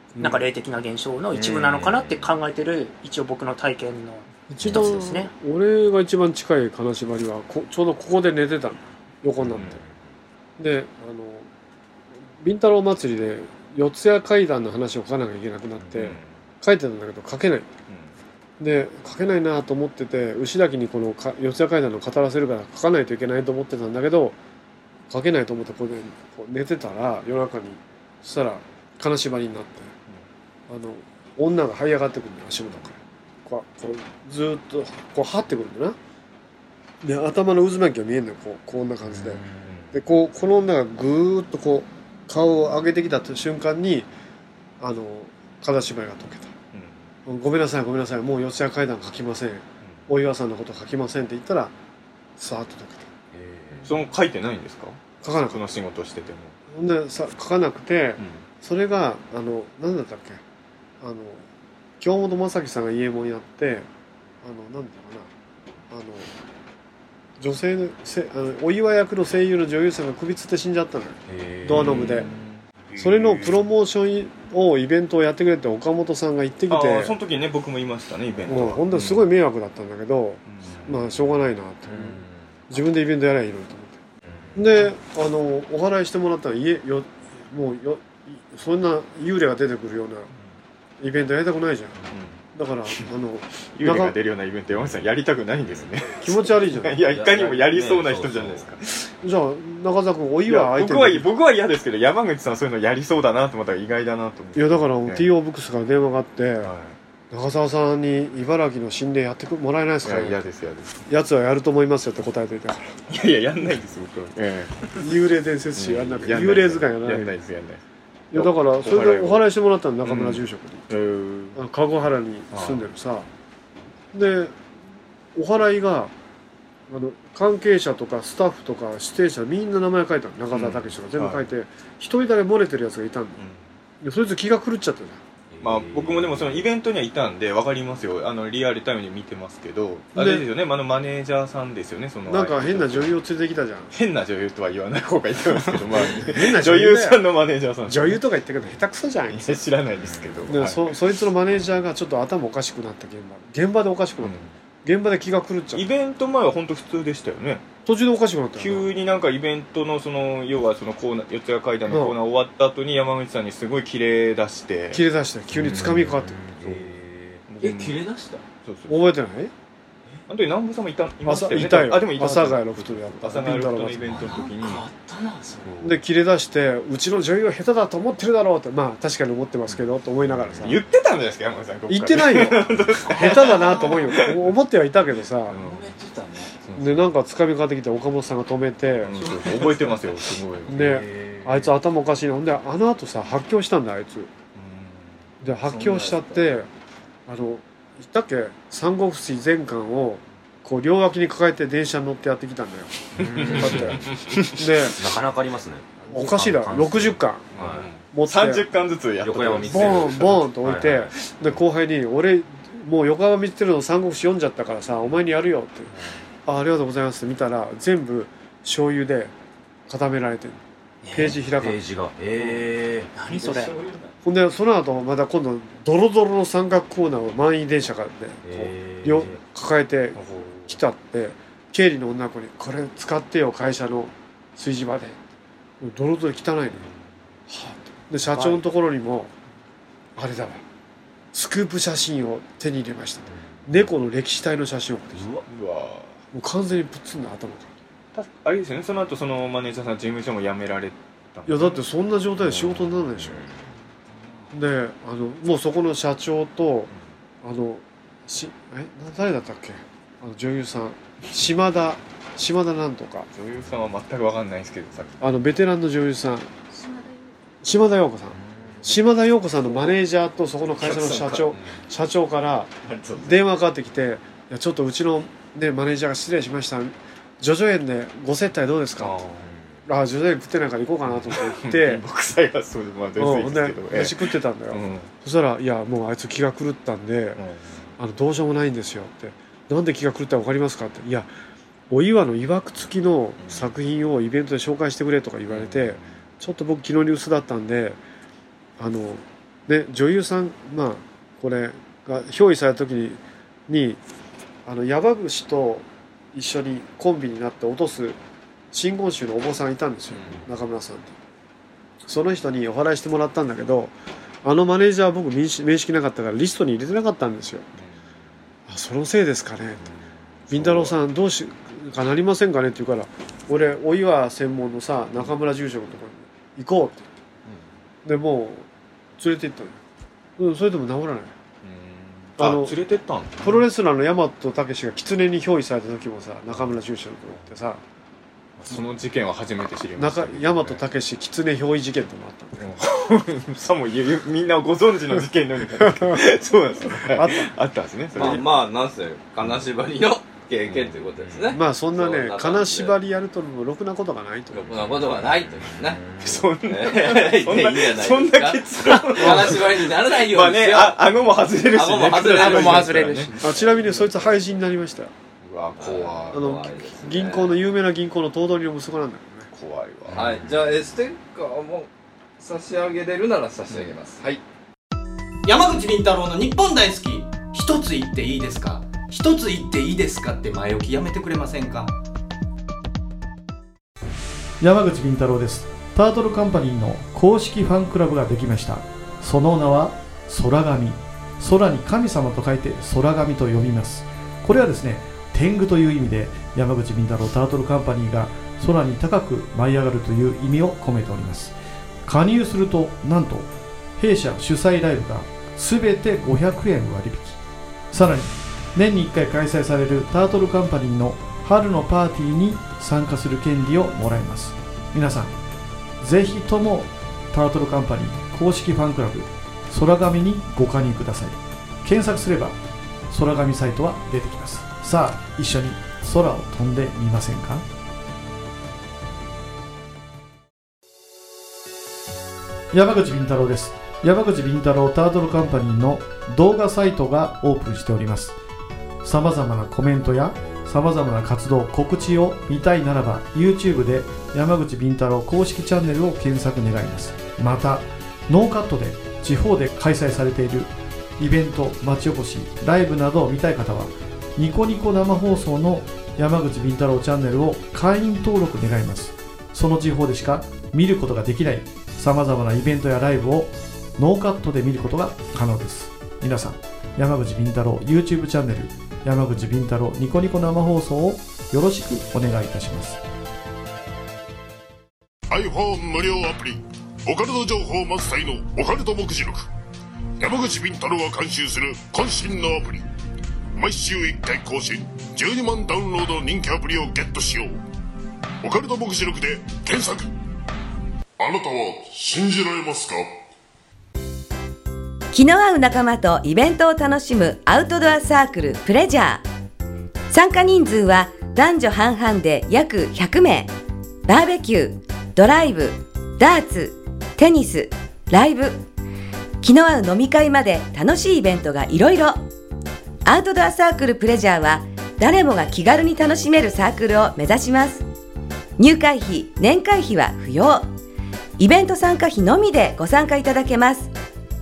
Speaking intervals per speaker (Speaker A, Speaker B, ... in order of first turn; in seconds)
Speaker A: 0.1-0.4, 4.5-9.8, 10.6-11.5, 12.4-17.7, 18.6-24.4, 25.1-29.9, 30.7-36.0, 37.0-44.1, 44.8-46.5, 47.2-51.7, 52.4-53.1, 55.2-55.7, 56.7-60.4, 61.0-61.4, 62.0-63.9, 64.4-65.3, 65.9-66.3, 67.4-72.3, 73.0-77.1, 78.5-84.0, 84.5-90.3, 91.0-92.0, 92.5-94.2, 96.2-97.0, 99.2-101.3, 104.5-106.7, 107.3-110.4, 111.1-112.9, 115.0-117.3, 118.3-120.8, 121.5-123.3, 124.1-124.6, 125.3-126.1, 126.9-133.4, 134.0-135.2, 140.1-140.5, 142.3-143.9, 145.9-147.2, 147.8-149.6, 150.5-155.8, 157.8-158.9, 161.9-162.2, 164.9-166.5, 168.9-169.5, 171.2-174.2, 175.8-180.8, 181.9-185.6, 186.8-189.2, 190.7-194.3, 195.4-196.7, 197.3-205.0, 206.1-207.5, 208.1-208.6, 209.7-215.9, 216.4-219.3, 219.9-221.8, 224.2-235.2, 235.8-236.8, 237.5-239.3, 240.2-240.6, 241.3-245.3, 246.3-247.7, 251.5-253.4, 254.5-256.9, 257.4-263.3, 265.2-266.5, 267.6-272.7, 273.2-279.2, 279.9-282.0, 283.1-287.4, 288.0-291.3, 291.9-298.0, 298.8-304.0, 304.6-308.2, 308.7-311.1, 312.0-317.7, 318.7-319.8, 320.5-327.1, 328.0-328.7, 329.2-329.8, 330.4-331.3, 332.4-332.8, 333.4-337.8, 340.0-342.7, 345.8-346.2, 346.9-347.5, 348.1-348.4, 351.5-354.8, 363.4-365.1, 366.3-369.5
Speaker B: 0.2-5.3, 223.1-223.7, 238.3-238.6, 362.4-363.2
Speaker C: 1.3-2.4, 9.4-10.0, 15.8-16.1, 39.1-39.7, 53.3-54.0, 71.3-72.3, 72.9-73.6, 78.4-79.0, 81.9-82.6, 84.2-84.7, 94.7-95.0, 95.7-96.0, 97.0-98.7, 135.5-136.7, 150.0-150.5, 165.5-167.4, 190.8-191.7, 203.2-207.9, 209.2-211.1, 221.1-223.1, 228.4-229.4, 243.3-243.7, 252.5-253.6, 268.3-268.9, 279.4-279.8, 351.2-351.6, 354.8-356.5, 370.1-370.5
Speaker D: 9.5-9.8, 15.9-16.3, 39.6-39.9, 46.7-47.0, 53.8-56.6, 71.7-72.6, 76.7-79.1, 80.5-81.1, 92.1-92.4, 93.8-99.1, 100.5-105.3, 106.6-107.0, 110.0-111.0, 113.1-115.0, 115.8-117.8, 118.3-119.4, 120.0-121.6, 122.5-122.8, 130.5-131.5, 133.4-133.7, 135.6-143.1, 143.9-148.2, 149.3-150.9, 154.2-154.5, 155.7-157.6, 158.6-165.0, 166.6-166.9, 167.5-168.0, 168.6-169.1, 170.3-174.8, 175.6-175.9, 180.5-184.5, 185.5-185.9, 186.6-187.0, 189.0-191.0, 194.6-195.2, 203.2-204.5, 207.5-210.5, 230.1-230.8, 245.5-246.2, 248.1-251.8, 263.3-265.2, 270.9-271.8, 272.9-273.4, 279.0-279.5, 281.1-285.1, 287.4-287.8, 293.4-293.7, 295.5-296.1, 310.1-310.4, 320.5-320.9, 331.6-333.6, 338.6-340.8, 342.6-348.4, 350.6-351.0, 356.2-363.6, 365.4-366.5, 369.5-370.3
Speaker E: 167.6-168.4, 174.2-175.7, 183.3-184.1, 185.6-186.5, 189.1-190.0, 195.6-196.5, 223.3-224.1, 348.1-352.9, 354.5-356.0, 356.6-361.0, 361.7-363.4, 365.8-367.5, 370.1-371.9, 372.4-374.4
Speaker F: 375.4-381.9
Speaker G: 384.6-401.5, 402.1-407.4, 407.9-415.3, 416.0-422.6, 423.1-427.6, 432.7-438.3, 439.0-473.0
Speaker H: 475.3-479.5, 480.2-482.8, 483.6-487.6, 488.4-490.1, 491.2-493.2
Speaker I: 495.1-499.2, 500.1-503.5, 504.1-508.6, 509.4-512.2, 513.0-517.8, 518.6-520.6, 521.4-523.9